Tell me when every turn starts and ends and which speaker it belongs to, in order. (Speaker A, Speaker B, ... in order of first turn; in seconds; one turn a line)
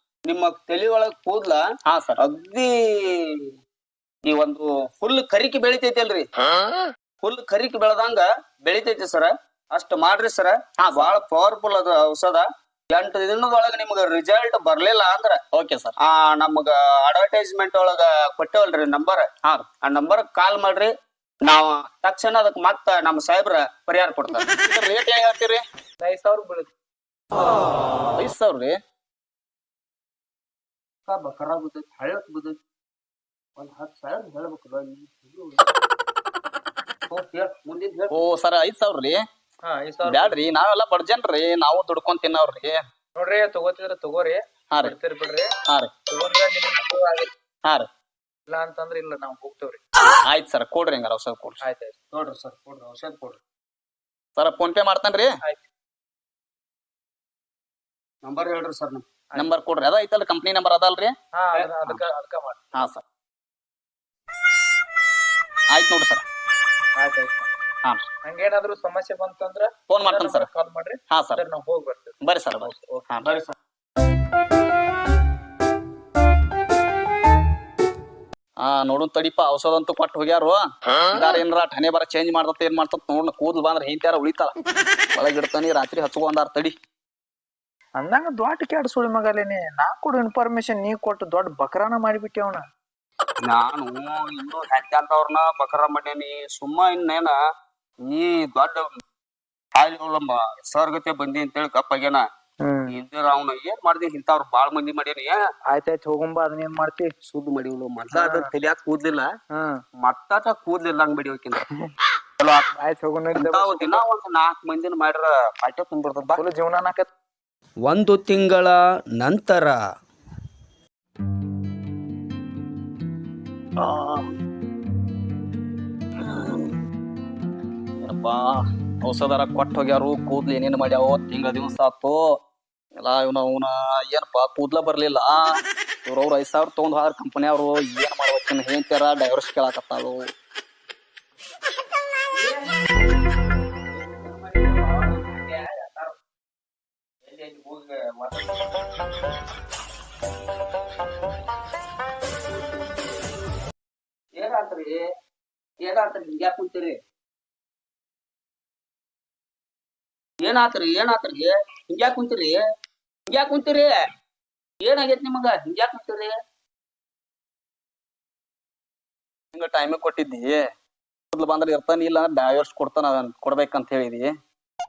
Speaker A: 0.3-1.6
Speaker B: 1.9-2.2
Speaker A: 2.2-3.2
Speaker A: 4.2-6.3
Speaker A: 7.2-15.4
Speaker B: 10.8-11.1
Speaker B: 15.5-15.9
Speaker A: 16.0-19.3
Speaker A: 19.8-20.9
Speaker A: 21.4-24.4
Speaker B: 24.6-25.6
Speaker C: 26.0-26.7
Speaker B: 28.2-28.8
Speaker A: 31.1-32.6
Speaker A: 33.6-35.7
Speaker A: 37.1-38.2
Speaker B: 38.1-39.2
Speaker C: 39.7-40.4
Speaker B: 40.0-42.8
Speaker C: 43.2-45.5
Speaker C: 46.1-47.3
Speaker C: 48.5-49.8
Speaker B: 50.2-51.6
Speaker C: 51.6-51.9
Speaker A: 52.1-53.4
Speaker B: 54.4-55.3
Speaker A: 58.2-59.0
Speaker B: 59.4-61.1
Speaker C: 61.4-62.7
Speaker B: 62.7-63.0
Speaker B: 65.7-66.2
Speaker C: 67.0-67.5
Speaker C: 68.3-73.2
Speaker B: 69.9-70.5
Speaker B: 71.1-71.4
Speaker B: 72.2-73.3
Speaker A: 73.2-73.5
Speaker B: 78.6-84.5
Speaker B: 85.1-86.7
Speaker C: 88.0-92.6
Speaker A: 93.4-97.3
Speaker A: 98.0-98.9
Speaker A: 99.7-102.2
Speaker C: 102.6-103.0
Speaker A: 102.9-105.4
Speaker C: 105.7-107.1
Speaker A: 107.2-109.3
Speaker C: 108.1-108.5
Speaker C: 109.5-109.8
Speaker A: 110.0-111.6
Speaker A: 112.4-112.7
Speaker C: 112.8-114.0
Speaker A: 113.3-116.4
Speaker C: 116.3-117.1
Speaker A: 117.8-119.8
Speaker B: 123.8-124.2
Speaker B: 128.0-132.2
Speaker B: 133.0-135.5
Speaker B: 136.1-140.2
Speaker A: 142.3-142.9
Speaker A: 143.8-146.2
Speaker A: 147.2-148.6
Speaker A: 154.4-155.0
Speaker A: 155.8-157.0
Speaker A: 160.4-162.6
Speaker A: 163.3-163.9
Speaker A: 164.8-166.3
Speaker B: 169.5-170.6
Speaker B: 171.3-174.3